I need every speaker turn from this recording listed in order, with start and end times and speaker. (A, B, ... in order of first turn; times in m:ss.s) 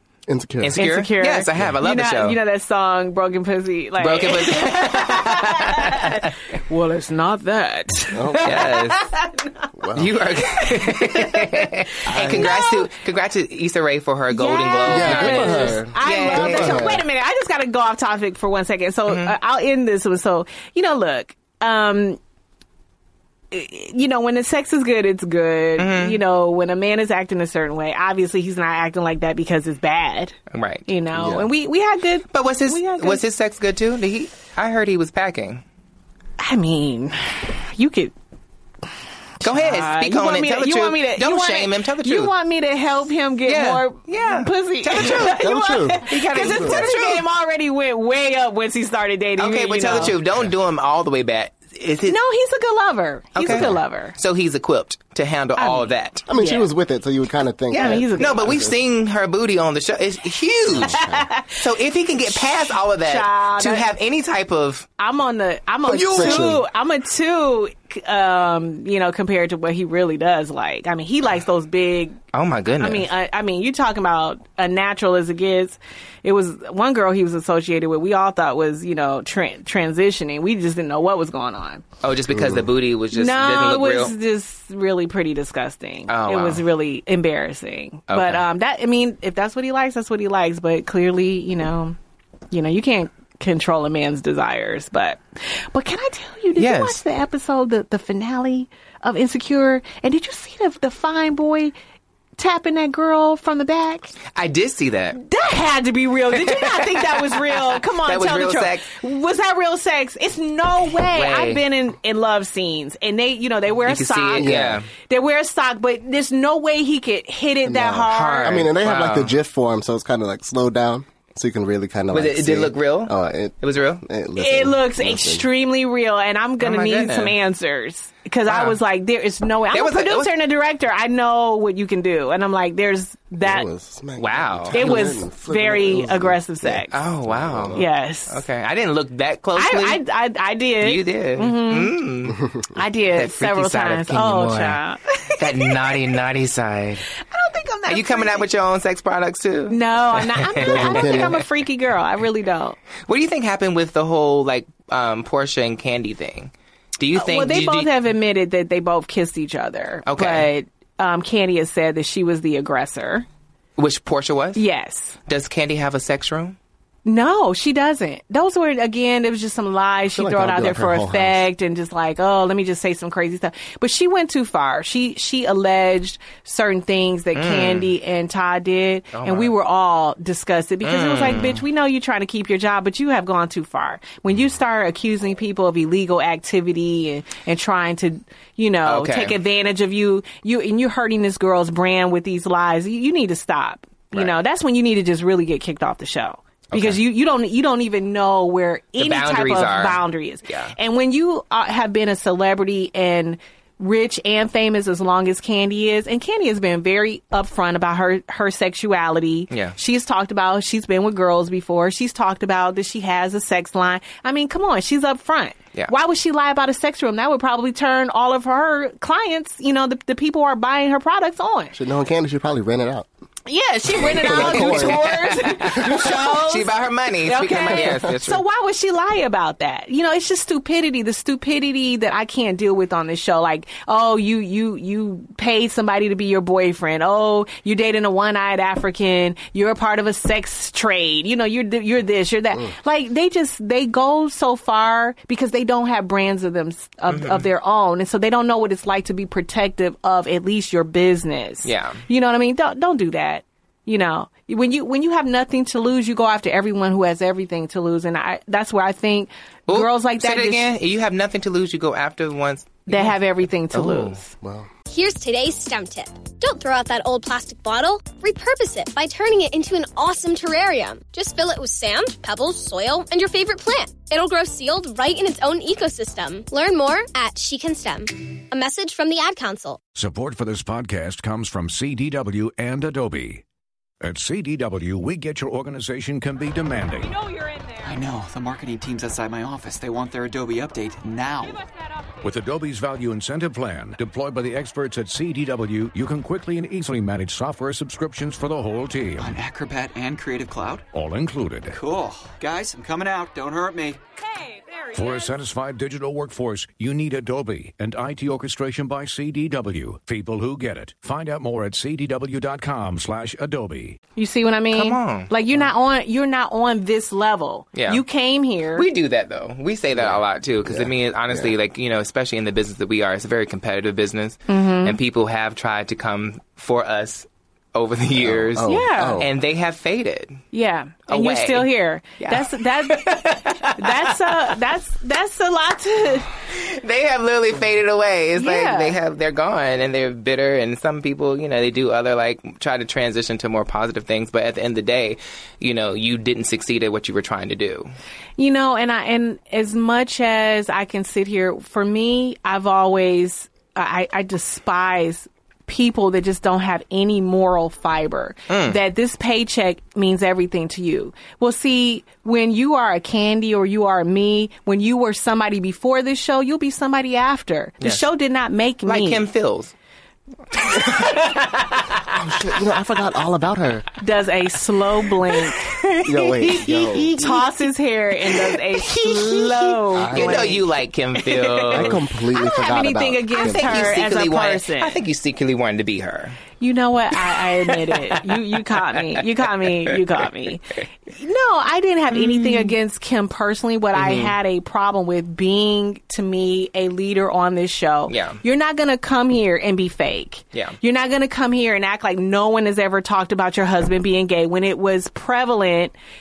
0:00.3-0:00.8 A
0:00.6-0:02.4 B
0:00.8-0:09.6 C
0:04.0-0:06.2 B
0:08.1-0:08.6 A
0:08.4-0:09.1 B
0:09.8-0:10.1 A
0:09.9-0:16.9 B
0:10.6-0:11.7 C
0:12.1-0:12.5 A
0:12.3-0:12.9 C
0:14.3-0:22.2 C
0:14.9-0:17.0 A
0:19.1-0:19.3 B
0:23.5-0:30.4 C
0:25.8-0:26.2 B
0:30.5-0:30.9 B
0:30.9-0:33.2 C
0:31.1-0:31.5 A
0:32.3-0:35.6 B
0:36.4-0:38.1 C
0:39.4-0:50.2 C
0:39.4-0:42.3 B
0:43.4-0:47.2 B
0:45.0-0:46.9 A
0:49.4-0:52.2 B
0:52.1-0:54.1 C
0:53.4-0:56.2 B
0:53.4-0:53.8 A
0:55.6-0:56.7 C
0:56.3-0:58.8 A
0:57.7-0:58.4 C
0:57.7-1:04.9 B
1:00.7-1:01.3 A
1:00.8-1:01.6 C
1:02.6-1:03.9 C
1:05.0-1:12.2 C
1:05.9-1:06.6 A
1:05.9-1:06.5 B
1:12.3-1:13.1 B
1:12.8-1:21.8 C
1:22.0-1:24.1 B
1:22.3-1:22.7 A
1:23.1-1:32.0 C
1:26.1-1:26.6 B
1:28.1-1:28.4 B
1:32.5-1:41.7 C
1:36.6-1:37.0 B
1:42.4-1:44.1 C
1:44.3-1:45.2 B
1:45.1-1:54.5 C
1:46.3-1:48.9 B
1:51.0-1:51.6 B
1:53.8-1:54.9 B
1:54.4-1:54.8 A
1:55.1-1:58.6 C
1:57.6-2:05.5 A
1:58.1-1:59.4 B
2:02.1-2:04.0 B
2:04.4-2:13.7 C
2:06.6-2:07.4 B
2:08.4-2:08.8 B
2:09.7-2:10.3 B
2:13.4-2:17.8 A
2:14.2-2:15.2 B
2:14.7-2:17.0 C
2:16.9-2:20.0 B
2:17.7-2:18.4 C
2:19.6-2:22.0 C
2:20.8-2:22.4 B
2:22.7-2:25.9 C
2:23.1-2:24.8 B
2:25.4-2:27.1 B
2:27.3-2:28.5 C
2:27.9-2:31.4 B
2:29.7-2:32.8 C
2:30.6-2:31.4 A
2:33.0-2:37.9 B
2:37.1-2:43.2 C
2:40.0-2:40.5 B
2:43.8-2:44.6 B
2:44.5-2:45.2 C
2:45.3-2:46.6 B
2:47.0-3:41.8 C
2:50.1-2:51.5 A
2:57.3-2:57.9 B
2:59.1-2:59.5 B
3:00.8-3:01.6 B
3:08.8-3:09.4 B
3:16.7-3:17.0 B
3:19.0-3:20.7 B
3:29.5-3:29.8 B
3:41.7-3:43.1 A
3:43.5-4:20.7 C
3:43.9-3:45.0 A
3:44.1-3:48.4 B
4:07.1-4:07.4 B
4:11.6-4:12.0 B
4:19.7-4:23.2 B
4:22.9-4:24.3 C
4:23.7-4:24.2 B
4:24.4-4:24.7 A
4:24.9-4:39.8 D
4:39.9-4:43.4 E
4:44.0-4:47.2 E
4:47.8-4:51.7 F
4:52.2-4:59.4 E
4:59.2-5:00.9 F
5:00.9-5:01.8 E
5:01.7-5:04.0 F
5:04.9-5:14.0 E
5:14.2-5:18.9 C
5:14.7-5:15.3 B
5:17.7-5:18.0 B
5:18.8-5:30.4 B
5:19.9-5:21.5 A
5:24.5-5:25.0 C
5:28.2-5:29.3 A
5:28.6-5:29.2 C
5:30.5-5:36.3 C
5:31.1-5:34.5 B
5:36.5-5:47.9 B
5:38.4-5:39.0 C
5:48.4-6:09.2 C
5:58.5-5:58.8 B
6:08.8-6:09.7 B
6:10.5-6:11.9 B
6:12.1-6:13.9 A
6:14.0-6:25.0 C
6:16.0-6:17.2 A
6:18.5-6:22.0 B
6:19.9-6:20.5 A
6:21.7-6:23.9 A
6:23.4-6:26.4 B
6:26.6-6:45.9 C
6:32.1-6:32.8 B
6:34.0-6:34.3 B
6:38.1-6:38.4 B
6:40.5-6:40.8 B